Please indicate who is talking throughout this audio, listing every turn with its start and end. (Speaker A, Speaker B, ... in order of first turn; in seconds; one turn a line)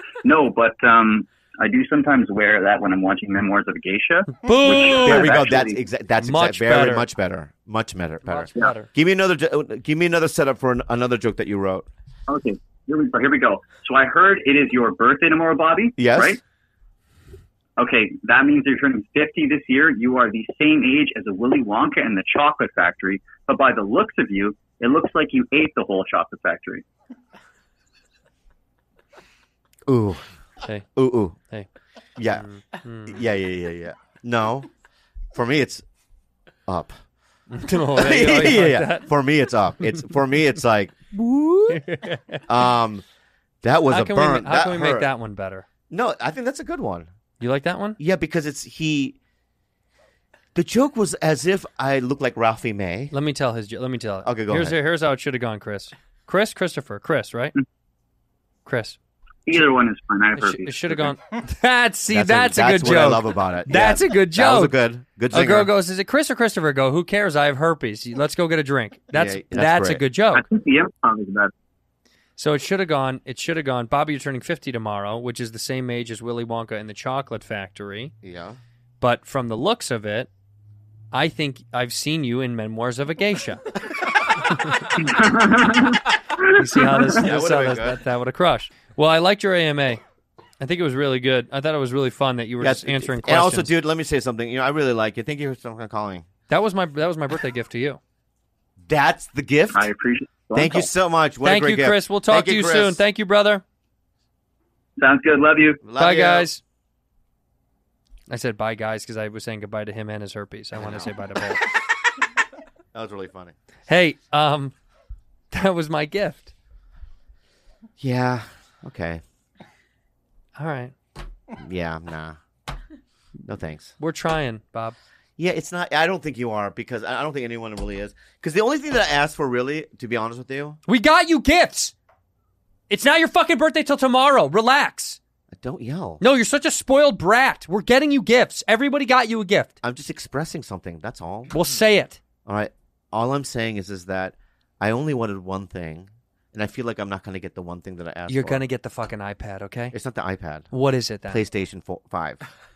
Speaker A: 0.2-5.8
Speaker B: 4.4-5.4
Speaker C: 4.9-11.9
Speaker B: 6.2-7.1
Speaker B: 8.2-8.9
Speaker A: 12.3-16.4
Speaker C: 16.0-16.4
Speaker A: 17.8-26.9
Speaker C: 29.9-30.2
Speaker C: 31.0-31.4
Speaker C: 32.2-32.5
Speaker B: 32.4-33.2
Speaker C: 33.1-34.7
Speaker C: 35.3-35.8
Speaker C: 36.7-37.0
Speaker B: 37.5-39.1
Speaker C: 37.9-41.9
Speaker B: 41.7-42.4
Speaker C: 42.5-43.0
Speaker C: 43.6-45.1
Speaker B: 43.9-45.7
Speaker C: 45.9-47.1
Speaker B: 47.4-48.0
Speaker C: 48.0-49.2
Speaker C: 50.5-53.1
Speaker B: 53.1-57.5
Speaker C: 54.2-54.8
Speaker B: 58.7-59.0
Speaker A: 59.5-61.1
Speaker B: 60.4-64.8
Speaker C: 62.1-65.7
Speaker B: 65.3-70.5
Speaker C: 69.1-70.0
Speaker A: 70.3-71.5
Speaker B: 72.4-78.1
Speaker C: 78.2-78.6
Speaker B: 79.0-80.3
Speaker B: 81.1-83.7
Speaker B: 84.4-84.8
Speaker A: 85.0-87.1
Speaker B: 86.5-90.0
Speaker C: 87.1-88.0
Speaker B: 90.6-93.7
Speaker C: 92.6-96.3
Speaker B: 96.5-98.0
Speaker C: 98.9-99.9
Speaker A: 99.7-100.9
Speaker C: 100.5-103.0
Speaker B: 101.4-103.6
Speaker A: 105.0-105.8
Speaker C: 105.8-106.5
Speaker B: 106.0-106.6
Speaker B: 108.3-111.7
Speaker C: 110.8-111.2
Speaker C: 112.9-113.5
Speaker B: 113.9-114.7
Speaker B: 115.5-116.5
Speaker C: 118.0-119.2
Speaker B: 120.6-120.9
Speaker C: 121.6-122.4
Speaker C: 123.5-123.9
Speaker B: 124.0-125.0
Speaker C: 125.4-130.8
Speaker B: 130.9-131.9
Speaker B: 132.9-135.2
Speaker C: 135.5-136.2
Speaker B: 136.2-139.7
Speaker C: 139.8-141.5
Speaker B: 141.5-142.2
Speaker C: 142.5-148.6
Speaker B: 148.3-149.9
Speaker C: 149.9-150.7
Speaker B: 150.7-151.4
Speaker C: 151.3-152.4